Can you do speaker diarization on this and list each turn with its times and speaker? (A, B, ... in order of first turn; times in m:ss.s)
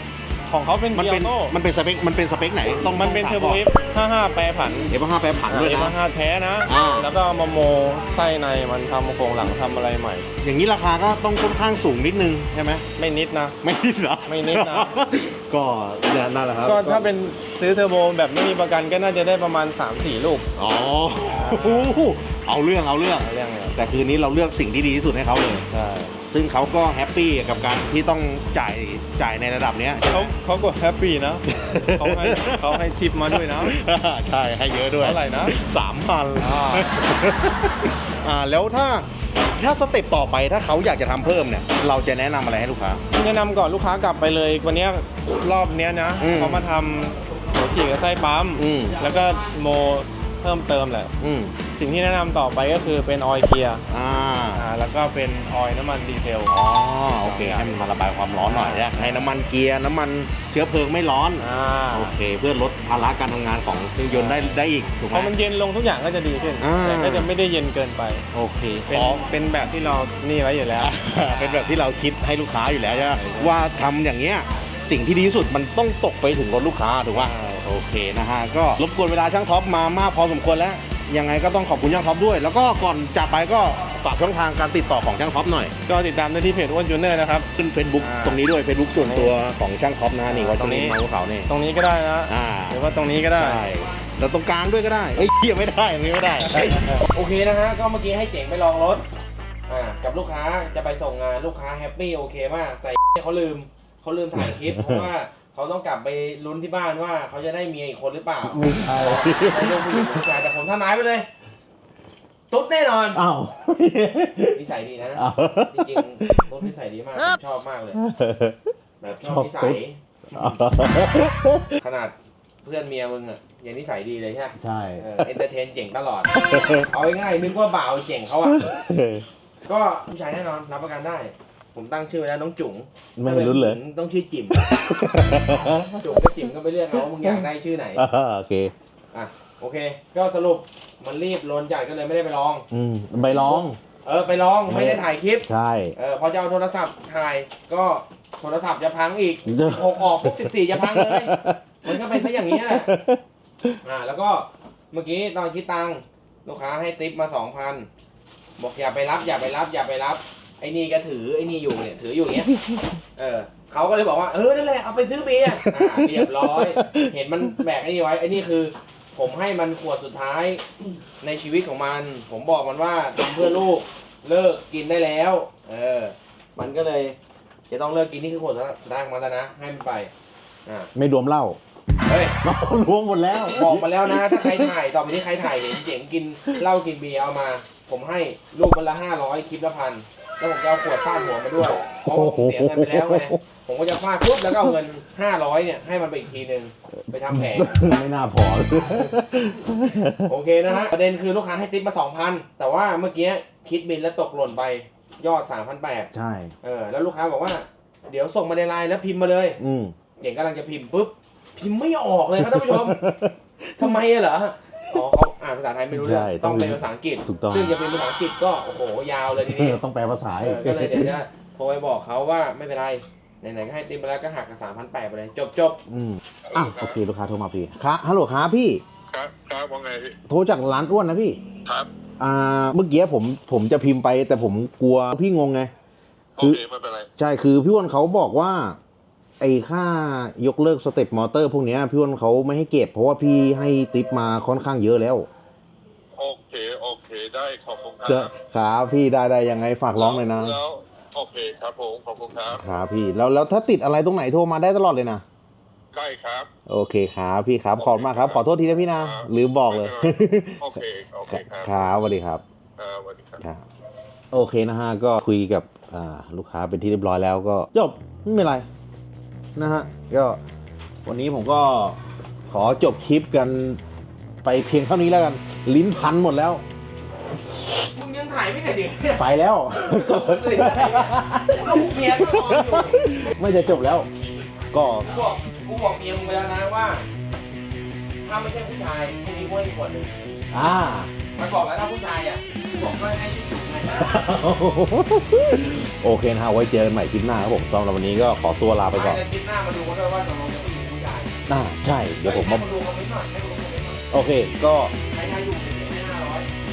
0:00.5-0:01.6 A
0:00.9-0:03.7 B
0:02.8-0:04.9 A
0:04.9-0:06.0 B
0:05.5-0:10.3 A
0:06.7-0:07.1 B
0:10.4-0:12.9 B
0:13.0-0:13.6 A
0:13.6-0:17.1 B
0:14.3-0:15.0 A
0:16.6-0:20.4 A
0:20.6-0:25.7 B
0:21.3-0:22.1 A
0:23.2-0:23.8 A
0:25.7-0:26.2 A
0:26.3-0:30.3 B
0:30.0-0:33.8 A
0:31.5-0:43.0 B
0:35.0-0:35.6 A
0:36.4-0:36.9 A
0:43.1-0:51.1 A
0:46.2-0:46.7 B
0:48.6-0:49.0 B
0:51.2-0:51.6 B
0:51.7-0:53.8 A
0:53.9-0:54.7 B
0:54.6-0:56.6 A
0:56.5-1:05.3 B
0:57.2-0:57.7 A
0:58.5-0:59.3 A
1:01.4-1:02.2 A
1:04.1-1:08.2 A
1:06.6-1:07.3 B
1:08.3-1:09.2 B
1:08.9-1:11.8 A
1:10.8-1:25.7 B
1:12.9-1:13.6 A
1:17.1-1:17.6 A
1:25.8-1:28.4 A
1:27.5-1:31.5 B
1:29.0-1:29.4 A
1:30.3-1:33.6 A
1:32.2-1:32.8 B
1:33.4-1:37.0 B
1:37.0-1:39.0 C
1:39.7-1:51.3 C
1:44.4-1:45.1 B
1:48.5-1:50.3 B
1:52.5-1:53.2 C
1:53.2-1:54.6 B
1:54.6-1:58.0 C
1:55.2-1:56.5 B
1:58.0-1:58.6 B
1:59.0-2:00.6 C
1:59.2-1:59.8 B
2:00.3-2:01.7 B
2:01.8-2:06.3 C
2:04.6-2:05.3 B
2:06.4-2:06.9 B
2:06.9-2:08.7 C
2:08.5-2:09.3 B
2:09.7-2:14.7 C
2:13.2-2:13.8 B
2:14.7-2:16.1 B
2:15.9-2:18.0 C
2:17.0-2:18.7 B
2:19.1-2:22.6 C
2:22.7-2:23.8 B
2:23.2-2:32.9 C
2:24.7-2:26.0 B
2:29.5-2:33.8 B
2:33.8-2:37.9 C
2:38.6-2:42.5 C
2:42.5-2:42.9 B
2:43.2-2:50.6 C
2:45.6-2:47.1 B
2:51.2-2:57.2 C
2:57.7-3:00.1 C
3:01.0-3:01.6 B
3:02.1-3:02.4 C
3:02.4-3:04.7 B
3:03.5-3:17.8 C
3:12.0-3:13.4 B
3:17.3-3:20.3 B
3:20.2-3:26.1 C
3:26.1-3:26.5 B
3:26.6-3:29.6 C
3:29.6-3:29.9 B
3:30.2-3:33.0 C
3:32.4-3:34.0 B
3:33.8-3:39.8 C
3:35.9-3:37.7 B
3:39.4-3:41.2 B
3:40.4-3:45.8 C
3:45.9-3:48.8 B
3:46.5-3:47.0 D
3:49.1-3:50.2 D
3:50.3-3:51.4 B
3:52.2-3:55.7 B
3:56.4-3:57.1 D
3:57.2-3:58.8 B
3:59.4-4:05.3 B
4:06.2-4:08.3 D
4:08.0-4:10.6 B
4:10.0-4:12.6 D
4:12.5-4:15.2 B
4:15.9-4:16.5 D
4:16.7-4:22.4 B
4:17.8-4:18.4 D
4:18.9-4:21.8 D
4:22.8-4:23.4 D
4:24.3-4:28.7 B
4:29.6-4:30.4 B
4:31.0-4:32.0 B
4:32.5-4:33.8 B
4:34.4-4:36.6 B
4:37.9-4:43.3 C
4:39.2-4:44.1 B
4:44.7-4:45.3 B
4:45.1-4:47.0 C
4:48.2-4:50.1 C
4:50.5-4:51.1 B
4:51.4-4:54.3 C
4:53.9-4:59.2 B
4:59.0-5:01.3 C
5:01.5-5:02.7 B
5:02.2-5:04.1 C
5:04.1-5:04.9 B
5:05.1-5:06.5 C